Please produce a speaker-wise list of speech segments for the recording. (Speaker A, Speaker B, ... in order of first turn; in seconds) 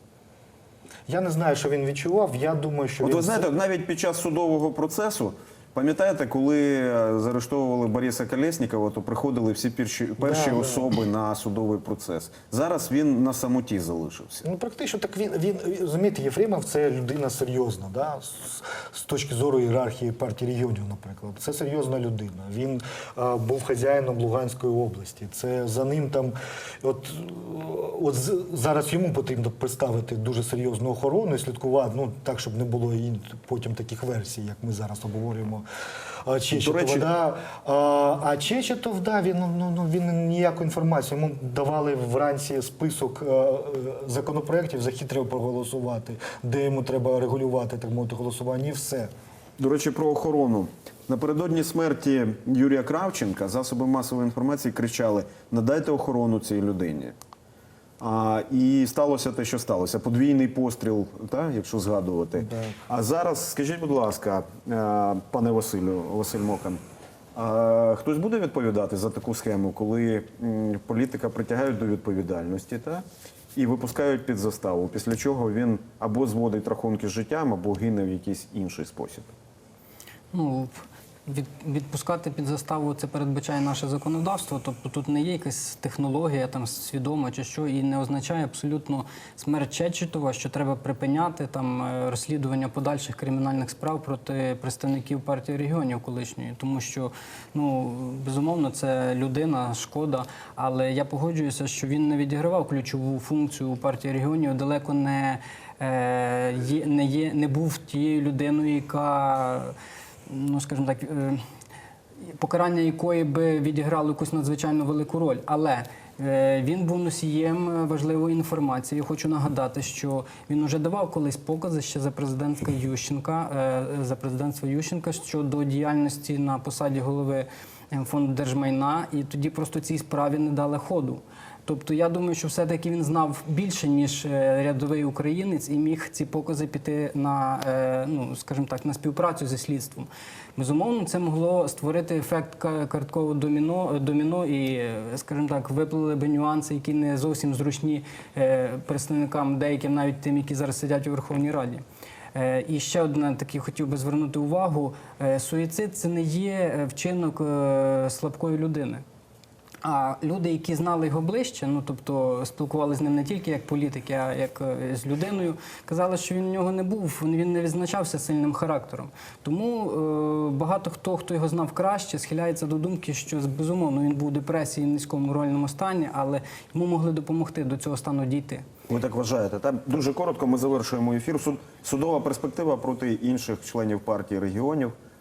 Speaker A: 1.1-3.5, 10.2-10.9, 14.4-35.7, 36.2-49.1, 62.4-62.8
Speaker B: 3.0-14.4, 36.5-37.1, 49.6-57.1, 58.0-66.8, 67.3-79.3, 178.9-184.9
Speaker C: 80.3-109.7, 110.3-111.4, 112.3-151.8, 152.3-159.0, 159.8-178.7